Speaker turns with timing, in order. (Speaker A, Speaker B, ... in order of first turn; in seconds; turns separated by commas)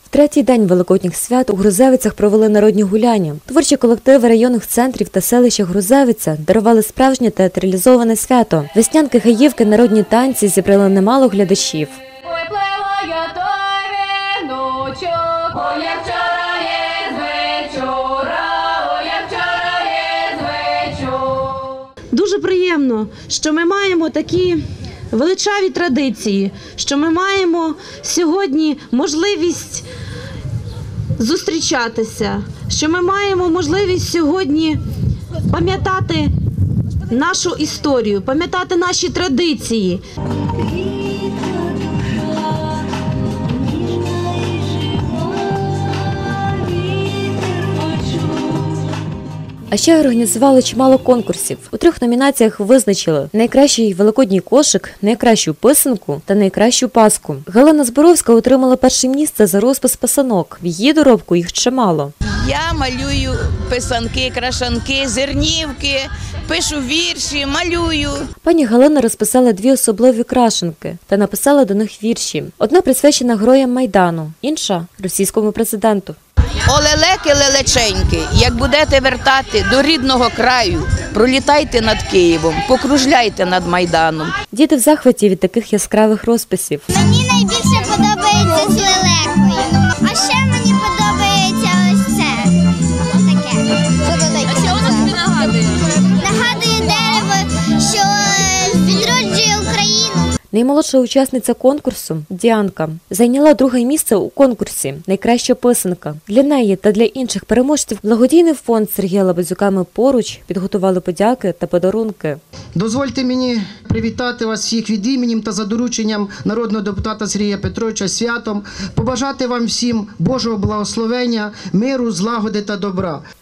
Speaker A: 0.1-12.0, Speaker B: 12.2-21.8, Speaker C: 22.1-29.8, Speaker C: 31.2-34.8, Speaker C: 35.5-36.3, Speaker C: 37.1-40.0, Speaker B: 41.1-42.0, Speaker A: 49.7-62.1, Speaker D: 62.4-68.3, Speaker A: 68.4-76.2, Speaker D: 76.7-84.3, Speaker A: 84.5-86.9, Speaker E: 86.9-92.5, Speaker E: 93.1-95.5, Speaker E: 96.2-100.3, Speaker A: 100.5-112.4, Speaker F: 112.8-123.2